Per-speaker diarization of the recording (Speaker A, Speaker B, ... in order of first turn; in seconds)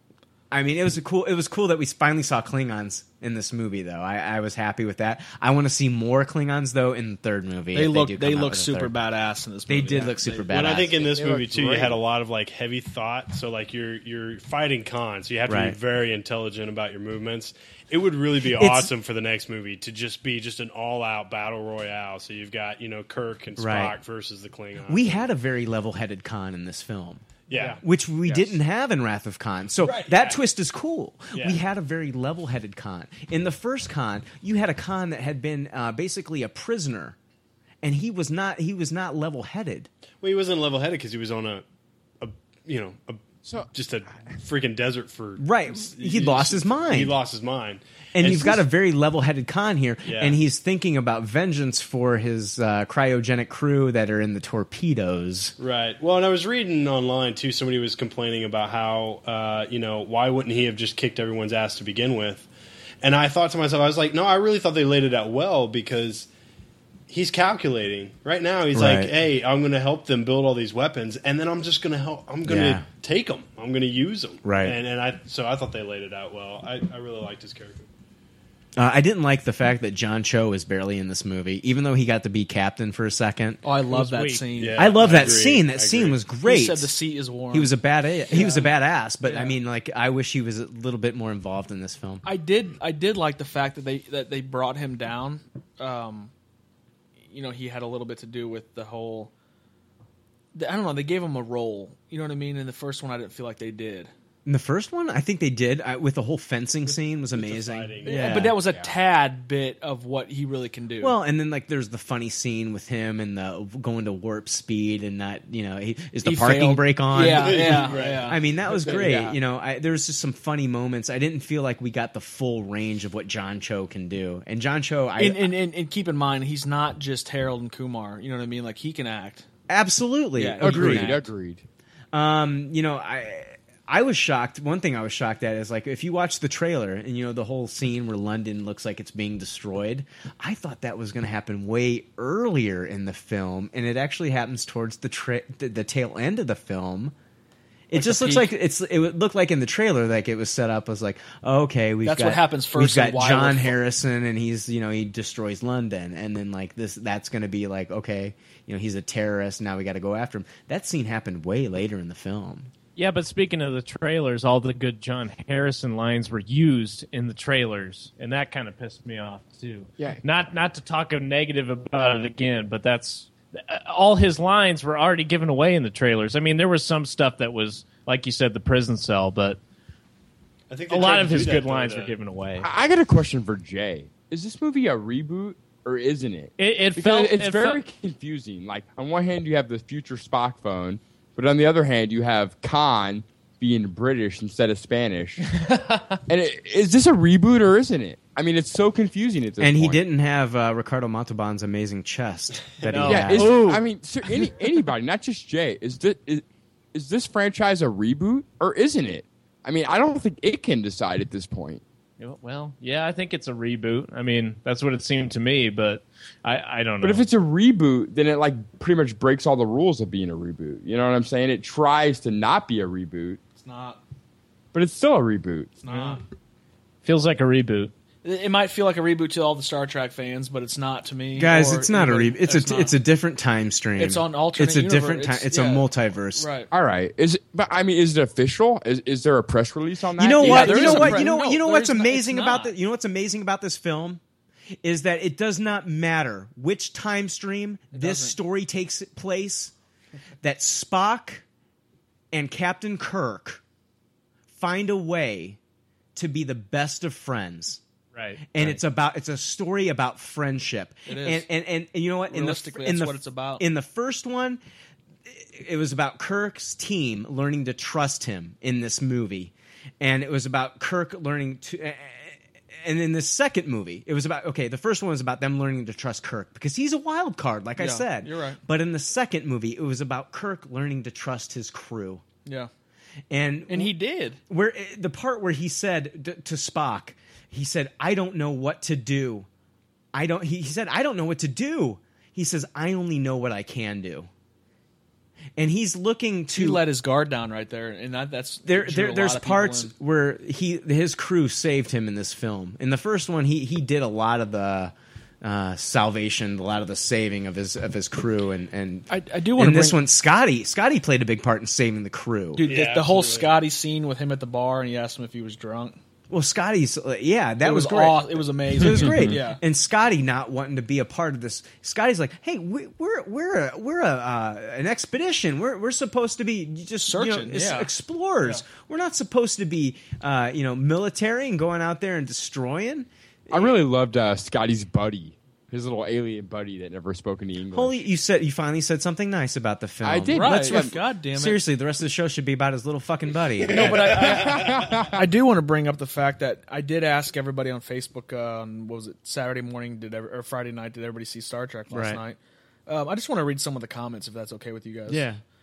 Speaker A: 0.5-8.9, 9.7-11.0, 15.5-15.8, 18.5-18.9, 23.6-24.0, 24.9-27.2, 27.8-37.1, 37.8-39.9, 45.4-47.2, 48.1-55.5, 68.7-69.1, 72.4-72.8, 74.4-74.8, 78.8-83.6, 84.8-86.9, 87.5-92.2, 104.4-108.6, 111.0-125.5, 129.7-131.2, 132.1-147.1, 147.9-162.7, 199.6-203.8, 231.3-236.5, 240.2-244.2, 244.8-249.7, 250.4-251.4, 252.3-253.6, 254.5-255.6, 256.1-257.8, 258.5-264.6, 265.3-282.2, 283.3-283.9, 284.5-289.5, 290.1-294.3, 295.6-296.8, 298.6-312.7, 316.3-333.7, 337.7-344.4, 351.9-352.2, 355.1-355.4
Speaker B: 7.7-10.8, 29.8-30.1, 83.6-84.9, 86.4-87.7, 88.3-88.7, 89.2-89.6, 92.2-96.3, 97.3-99.3, 100.5-104.1, 108.0-111.2, 116.2-118.9, 125.2-129.4, 130.4-131.2, 147.9-148.5, 152.0-153.8, 223.6-224.0, 225.8-226.2, 228.2-233.0, 234.0-236.7, 240.3-242.7, 247.9-248.3, 261.1-261.5, 262.3-263.6, 277.8-278.6, 282.4-282.7, 283.7-284.4, 296.5-299.9, 309.1-310.0, 312.6-316.0, 317.6-319.6, 327.0-328.6, 340.3-341.6, 343.8-344.4, 345.1-355.2
Speaker C: 10.5-25.3, 27.5-27.8, 29.9-30.4, 31.3-31.6, 40.2-41.6, 42.2-48.7, 50.0-50.4, 55.6-62.5, 63.0-66.3, 67.1-77.8, 84.5-86.2, 106.9-108.5, 117.2-118.9, 180.7-182.2, 202.6-203.1, 312.6-313.6, 343.9-344.7
Speaker D: 11.2-11.9, 83.9-84.5, 162.9-179.6, 180.9-182.7, 186.6-187.8, 195.5-196.1, 203.0-203.9, 212.2-217.2, 225.9-226.2, 227.0-227.9, 258.1-258.5
Speaker E: 28.2-28.5, 43.4-43.7, 108.6-108.9, 118.8-119.3, 130.6-131.7, 170.0-170.2, 182.6-195.5, 196.3-200.0, 203.0-211.8, 217.0-223.4, 224.7-225.8, 236.7-241.3, 318.9-319.4, 333.5-338.0, 340.0-341.0, 343.7-345.1